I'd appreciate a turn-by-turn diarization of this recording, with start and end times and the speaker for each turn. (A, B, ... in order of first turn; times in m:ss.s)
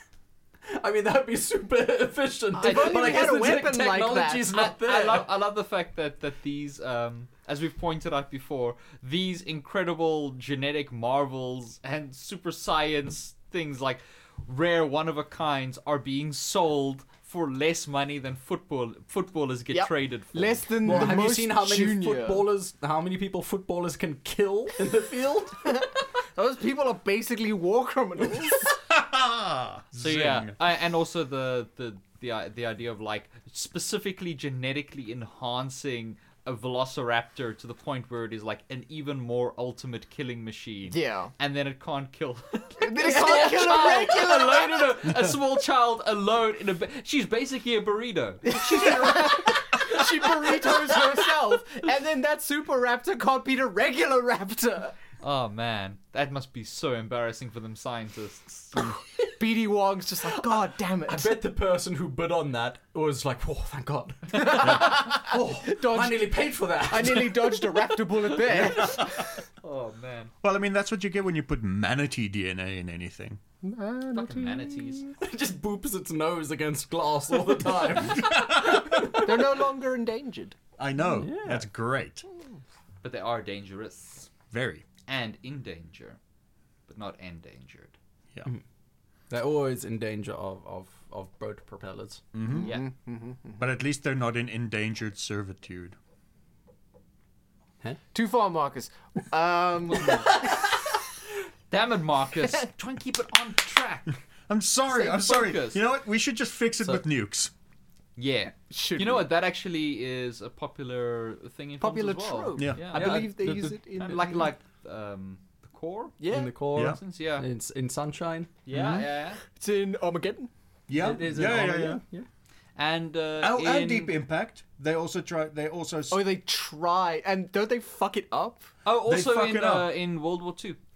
0:00.7-0:05.3 A
0:02.5-0:04.5 B
0:02.6-0:03.3 C
0:04.5-0:21.1 C
0:19.7-0:22.5 B
0:20.8-0:25.8 A
0:25.7-0:28.8 B
0:28.8-0:30.5 D
0:30.0-0:49.2 C
0:40.9-0:41.3 B
0:42.8-0:44.9 B
0:48.4-0:54.9 B
0:49.8-0:50.7 C
0:55.2-0:58.8 C
0:59.3-1:01.4 B
1:01.1-1:07.8 A
1:04.3-1:09.4 B
1:08.5-1:09.1 D
1:08.7-1:10.3 C
1:10.4-1:13.4 D
1:13.6-1:15.1 B
1:14.1-1:15.1 C
1:15.2-1:19.6 A
1:18.1-1:19.2 D
1:19.2-1:20.6 B
1:20.8-1:22.2 D
1:21.1-1:21.7 A
1:23.0-1:24.3 C
1:24.5-1:24.8 D
1:25.1-1:26.2 C
1:26.9-1:28.0 C
1:29.3-1:32.2 A
1:32.3-1:32.7 D
1:32.5-1:33.6 B
1:33.6-1:36.0 D
1:38.1-1:40.8 B
1:41.7-1:44.2 C
1:44.5-1:47.5 D
1:44.9-1:45.8 C
1:48.2-1:56.2 C
1:48.7-1:49.3 B
1:51.8-1:54.5 B
1:52.6-1:52.8 D
1:52.9-1:53.8 A
1:56.2-1:56.5 B
1:56.3-1:58.5 A
1:56.8-1:57.0 D
1:56.8-1:57.5 C
1:58.7-1:59.4 C
1:58.7-1:59.1 D
1:59.5-2:00.5 B
2:00.9-2:02.0 D
2:01.0-2:02.3 A
2:02.8-2:04.2 C
2:03.4-2:06.2 D
2:06.1-2:08.7 B
2:08.8-2:10.8 C
2:09.1-2:09.9 D